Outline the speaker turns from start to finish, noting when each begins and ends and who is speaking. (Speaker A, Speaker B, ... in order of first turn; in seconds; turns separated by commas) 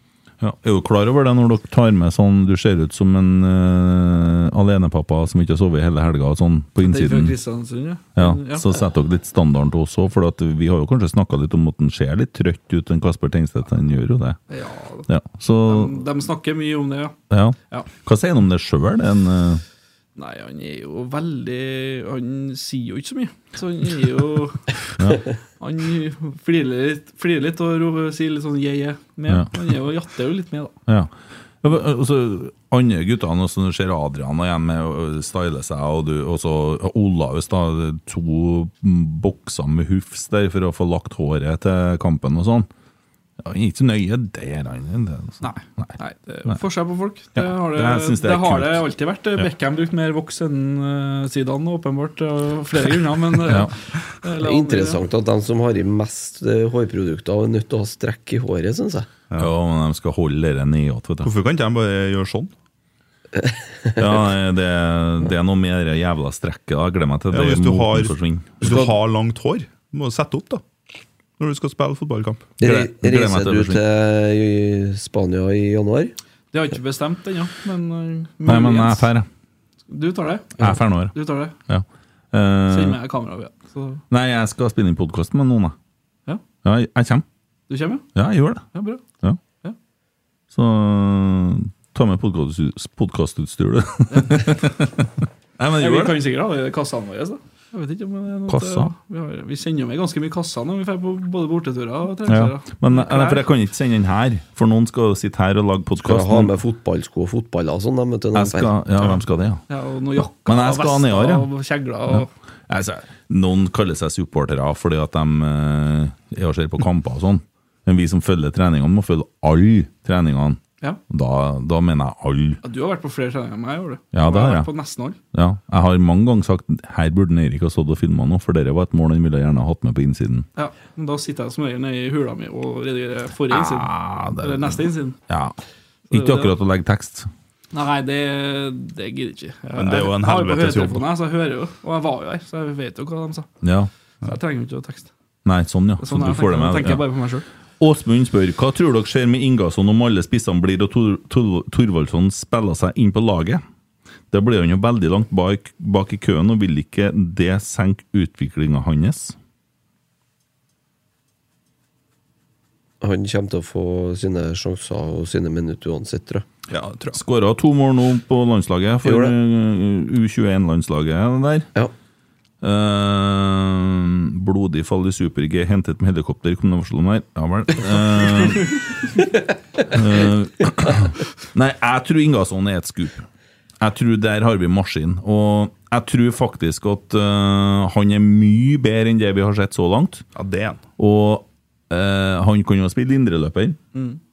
Speaker A: 0.4-7.3, Speaker B: 6.8-8.7, Speaker A: 8.2-14.4, Speaker B: 14.5-15.1, Speaker A: 15.1-16.0, Speaker B: 15.7-17.2, Speaker A: 17.3-19.6, Speaker B: 20.2-25.0, Speaker A: 25.0-25.2, Speaker B: 25.6-30.8, Speaker A: 30.9-31.1, Speaker A: 31.6-42.7, Speaker A: 43.4-46.0, Speaker B: 45.4-55.0, Speaker A: 47.4-49.5, Speaker A: 53.5-53.7, Speaker C: 54.4-59.1, Speaker A: 59.4-61.3, Speaker D: 61.2-62.5, Speaker C: 63.4-64.2, Speaker A: 64.0-68.8, Speaker D: 67.3-70.6, Speaker D: 71.4-72.5, Speaker C: 72.6-76.2, Speaker A: 72.6-73.8, Speaker B: 76.5-79.1, Speaker A: 78.5-79.3, Speaker B: 79.9-81.6, Speaker A: 80.6-81.1, Speaker A: 81.7-83.0, Speaker B: 82.7-84.0, Speaker A: 84.1-85.8, Speaker A: 86.6-87.2, Speaker B: 87.7-88.1, Speaker A: 88.2-88.6, Speaker B: 88.7-89.0, Speaker A: 90.5-96.2, Speaker B: 94.1-94.4, Speaker B: 95.8-103.5, Speaker A: 98.5-98.9, Speaker A: 102.3-106.5, Speaker C: 106.0-108.7, Speaker A: 108.3-109.6, Speaker B: 109.7-112.3, Speaker A: 110.5-111.5, Speaker A: 112.1-122.6, Speaker B: 122.6-125.2, Speaker A: 124.1-124.7, Speaker A: 125.3-130.5, Speaker B: 130.6-135.2, Speaker A: 133.5-135.6, Speaker B: 136.1-136.5, Speaker A: 136.1-137.3, Speaker B: 137.7-143.5, Speaker D: 139.8-141.1, Speaker A: 143.6-143.9, Speaker B: 144.2-145.1, Speaker A: 145.5-147.0, Speaker B: 146.0-147.5, Speaker A: 147.8-153.6, Speaker A: 154.3-159.4, Speaker C: 163.0-166.4, Speaker D: 166.7-167.2, Speaker A: 167.1-171.7, Speaker C: 169.0-169.3, Speaker A: 172.6-178.8, Speaker A: 179.8-183.3, Speaker A: 183.8-190.2, Speaker D: 190.4-190.8, Speaker A: 191.0-193.8